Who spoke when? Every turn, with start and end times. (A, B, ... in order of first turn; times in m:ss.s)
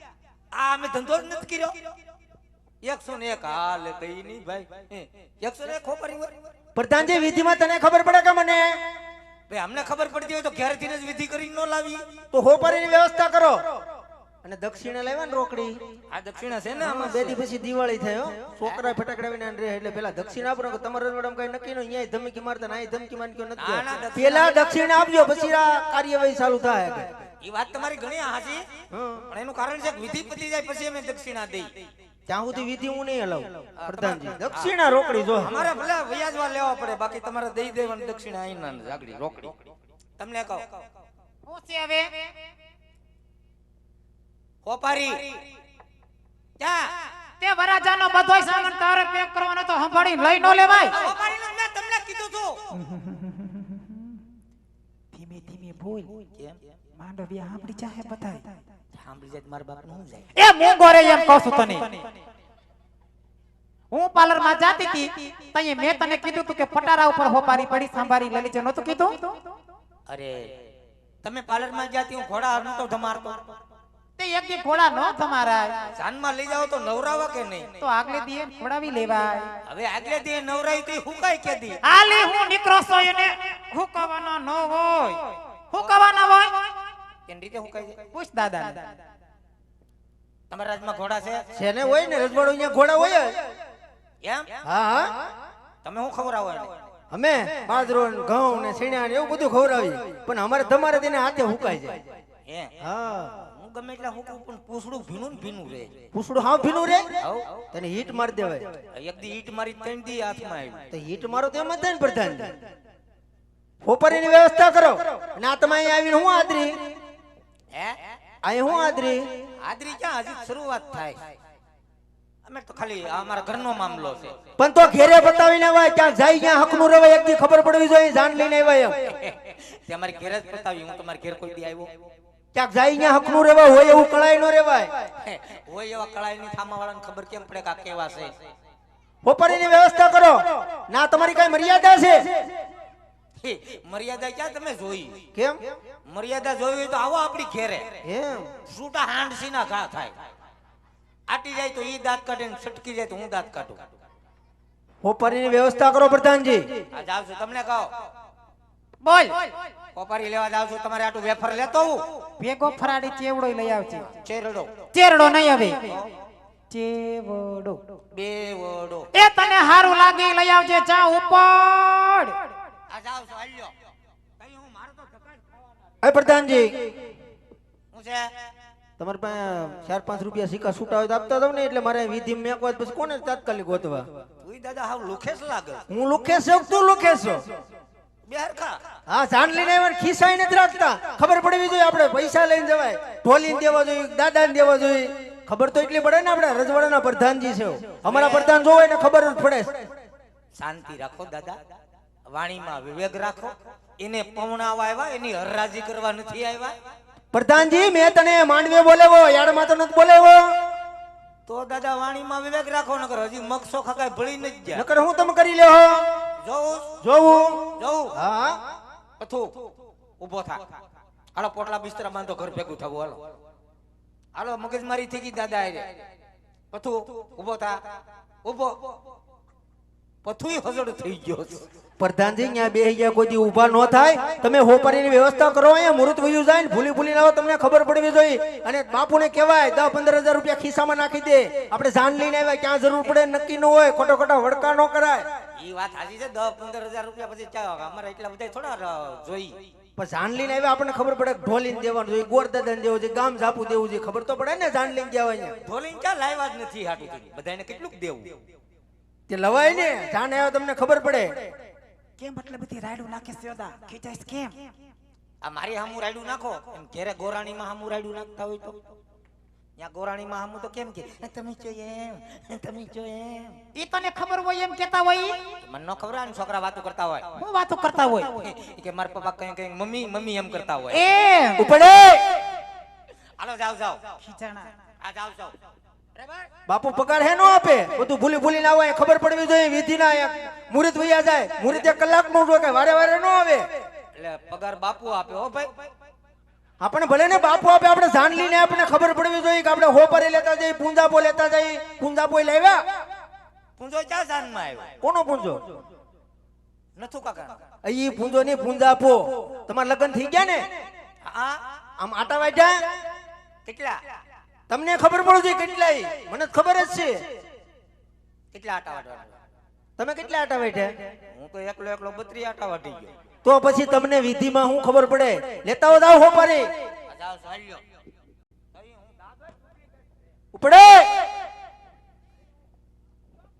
0:00.5-0:01.8 A
0:02.8-0:06.4 A
0:06.8-0:08.8 B
0:09.5-0:12.0 A
0:12.3-0:13.6 B
0:14.4-0:15.8 B
0:16.1-0:17.4 A
0:16.8-0:27.1 B
0:23.6-0:24.8 A
0:27.4-0:28.7 A
0:28.9-0:29.3 B
0:29.3-0:31.8 A
0:32.3-0:35.6 B
0:33.8-0:34.7 A
0:35.4-0:40.8 A
0:41.5-0:42.1 C
0:44.6-0:45.4 A
0:46.6-0:46.9 A
0:47.4-0:51.0 C
0:50.9-0:52.7 A
0:52.7-0:54.0 C
0:55.1-0:56.2 C
0:57.0-0:58.6 C
0:59.0-1:00.3 A
1:00.4-1:02.1 C
1:03.9-1:09.3 C
1:10.1-1:10.5 A
1:11.2-1:13.4 A
1:14.2-1:15.9 C
1:16.0-1:17.8 A
1:17.8-1:19.5 C
1:19.7-1:21.8 A
1:21.8-1:26.7 C
1:27.3-1:28.0 A
1:28.1-1:29.0 C
1:30.5-1:31.4 A
1:31.5-1:33.4 B
1:34.2-1:34.5 A
1:34.6-1:35.2 B
1:35.8-1:36.7 A
1:37.1-1:42.0 B
1:42.5-1:42.7 A
1:42.8-1:43.4 B
1:43.5-1:46.0 A
1:46.1-1:47.1 B
1:47.2-1:47.6 A
1:47.7-1:48.8 B
1:48.9-1:50.8 A
1:50.9-1:52.6 B
1:53.8-1:56.9 B
1:58.4-1:59.4 B
1:59.6-2:01.3 A
2:02.5-2:04.4 A
2:04.6-2:09.0 B
2:09.0-2:11.9 A
2:12.5-2:15.1 B
2:15.2-2:18.3 A
2:19.2-2:22.5 B
2:23.4-2:25.2 A
2:25.3-2:25.6 B
2:26.1-2:28.0 A
2:28.0-2:28.5 B
2:28.7-2:30.2 A
2:31.3-2:33.8 A
2:35.0-2:36.8 B
2:36.9-2:37.9 A
2:39.0-2:39.5 C
2:40.0-2:42.1 A
2:42.4-2:44.1 C
2:44.2-2:44.7 A
2:44.9-2:46.0 C
2:46.7-2:47.8 C
2:48.1-2:49.1 A
2:49.1-2:52.4 C
2:52.9-2:53.7 A
2:54.4-2:55.4 A
2:56.0-2:57.0 B
2:57.9-2:58.3 A
2:59.0-3:04.1 B
3:04.4-3:05.8 A
3:05.9-3:07.5 B
3:08.3-3:08.8 A
3:09.1-3:19.9 B
3:18.0-3:18.6 A
3:20.6-3:21.6 A
3:22.3-3:26.7 A
3:27.3-3:30.6 B
3:31.5-3:34.9 A
3:34.7-3:36.2 B
3:36.4-3:37.0 A
3:37.0-3:38.6 B
3:37.8-3:38.1 A
3:39.2-3:39.7 A
3:40.2-3:40.6 A
3:41.4-3:43.2 A
3:44.4-3:45.9 A
3:46.7-3:47.8 A
3:48.4-3:49.0 A
3:50.2-3:51.7 A
3:52.0-4:05.3 B
4:05.6-4:09.6 A
4:10.0-4:15.6 B
4:15.6-4:18.4 A
4:19.3-4:21.5 B
4:22.2-4:24.6 C
4:25.4-4:28.8 A
4:29.8-4:33.6 A
4:33.7-4:35.4 C
4:35.6-4:37.4 A
4:37.4-4:38.4 C
4:38.4-4:41.0 A
4:40.9-4:41.7 C
4:41.6-4:42.4 B
4:43.4-4:44.1 A
4:44.2-4:44.7 C
4:45.0-4:45.6 A
4:46.2-4:46.5 A
4:46.7-4:53.7 B
4:54.1-4:55.7 A
4:56.8-5:02.8 B
5:03.8-5:04.9 A
5:05.0-5:05.7 B
5:07.0-5:07.6 A
5:07.8-5:10.7 B
5:11.2-5:11.6 A
5:12.0-5:12.9 B
5:13.7-5:14.0 A
5:14.7-5:17.3 B
5:18.5-5:19.4 A
5:20.0-5:21.1 B
5:21.3-5:23.1 A
5:23.4-5:26.7 B
5:27.1-5:27.8 A
5:28.7-5:29.1 A
5:30.5-5:31.2 B